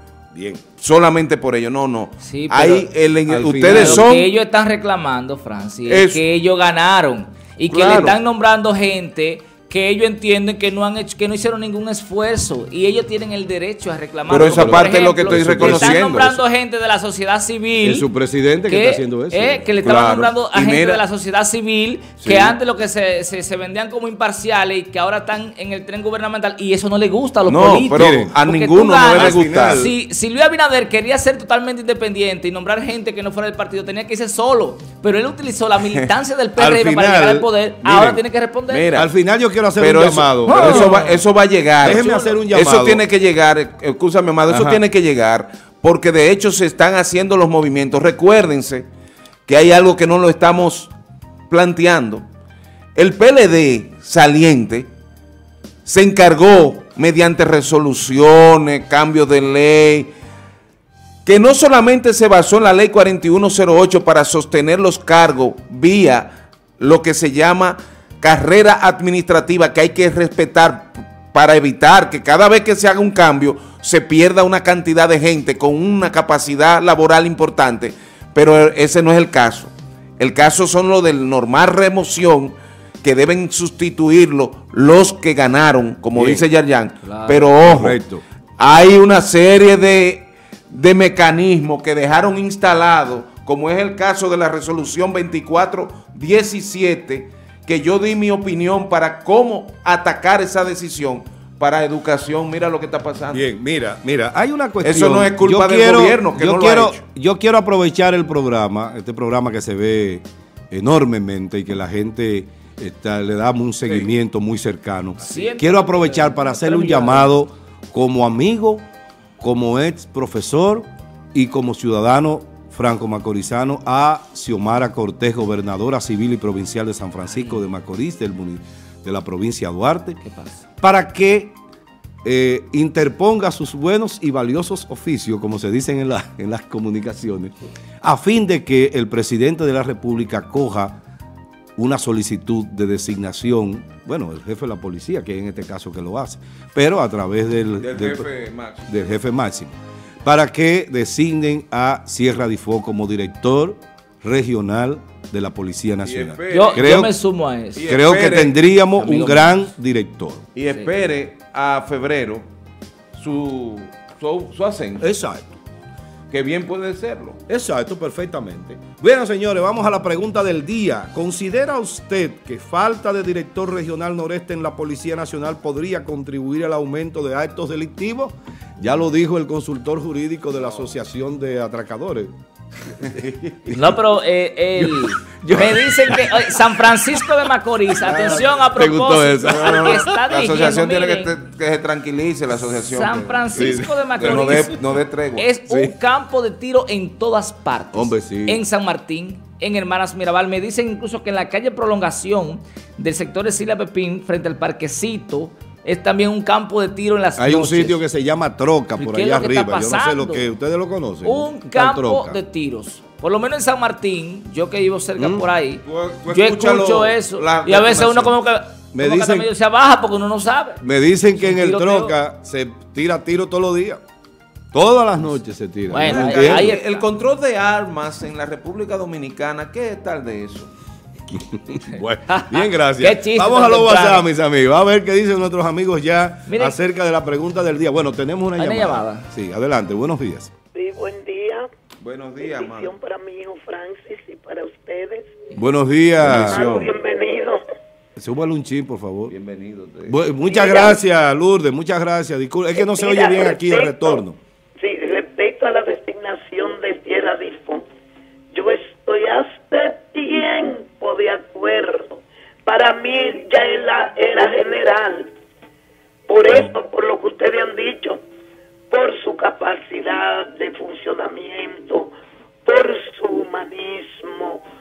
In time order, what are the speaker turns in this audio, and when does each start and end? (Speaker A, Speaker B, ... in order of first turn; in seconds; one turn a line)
Speaker A: 0.3-0.6
Speaker B: 0.8-4.3
Speaker C: 2.2-2.9
Speaker A: 3.3-4.0
Speaker C: 3.7-18.1
Speaker B: 5.9-6.2
Speaker B: 7.7-8.2
Speaker B: 14.3-16.4
Speaker A: 14.4-16.0
Speaker A: 17.8-19.6
Speaker C: 18.7-38.9
Speaker B: 19.8-21.0
Speaker B: 22.2-22.6
Speaker B: 27.5-29.9
Speaker A: 27.9-28.3
Speaker A: 29.1-29.9
Speaker A: 36.6-37.5
Speaker B: 37.8-39.1
Speaker A: 39.0-40.9
Speaker B: 39.8-48.9
Speaker C: 40.5-41.2
Speaker A: 41.8-43.0
Speaker A: 44.5-44.8
Speaker B: 49.5-50.9
Speaker B: 51.5-52.2
Speaker B: 53.0-54.9
Speaker B: 55.9-60.1
Speaker B: 61.2-88.0
Speaker A: 86.1-86.5
Speaker C: 87.1-87.3
Speaker A: 87.1-88.2
Speaker B: 88.6-103.4
Speaker A: 103.3-118.8
Speaker B: 104.8-107.0
Speaker C: 115.2-117.3
Speaker A: 119.4-130.2
Speaker C: 127.3-127.6
Speaker C: 130.2-130.7
Speaker A: 130.8-131.6
Speaker A: 132.2-141.0
Speaker A: 141.8-148.3
Speaker B: 147.8-149.1
Speaker A: 148.9-157.1
Speaker B: 156.0-157.1
Speaker C: 156.5-157.9
Speaker B: 157.8-158.6
Speaker A: 157.9-160.4
Speaker C: 159.0-159.6
Speaker B: 160.6-162.5
Speaker B: 163.1-165.1
Speaker A: 165.0-165.5
Speaker B: 166.3-167.4
Speaker A: 167.5-182.3
Speaker A: 182.9-183.8
Speaker B: 183.0-183.6
Speaker C: 183.7-191.3
Speaker A: 184.8-187.4
Speaker A: 188.0-190.1
Speaker B: 189.5-195.5
Speaker C: 192.7-208.0
Speaker A: 193.6-194.8
Speaker A: 197.9-198.6
Speaker A: 207.4-212.4
Speaker C: 209.0-210.5
Speaker C: 211.2-220.8
Speaker A: 215.2-215.5
Speaker B: 215.8-218.3
Speaker A: 218.9-219.5
Speaker A: 220.8-224.0
Speaker C: 221.3-222.1
Speaker A: 224.7-226.7
Speaker C: 225.9-227.1
Speaker B: 226.1-230.7
Speaker A: 231.3-240.5
Speaker C: 231.9-234.2
Speaker C: 236.5-236.8
Speaker C: 238.6-239.3
Speaker D: 240.7-241.7
Speaker B: 242.0-242.9
Speaker D: 242.4-245.4
Speaker A: 245.6-246.6
Speaker B: 246.2-246.9
Speaker D: 246.3-247.6
Speaker A: 248.2-249.3
Speaker B: 249.3-250.3
Speaker A: 250.1-254.4
Speaker D: 250.5-251.0
Speaker D: 252.7-254.2
Speaker D: 254.8-257.9
Speaker D: 258.5-265.3
Speaker D: 266.3-268.2
Speaker D: 268.9-272.1
Speaker D: 272.6-274.6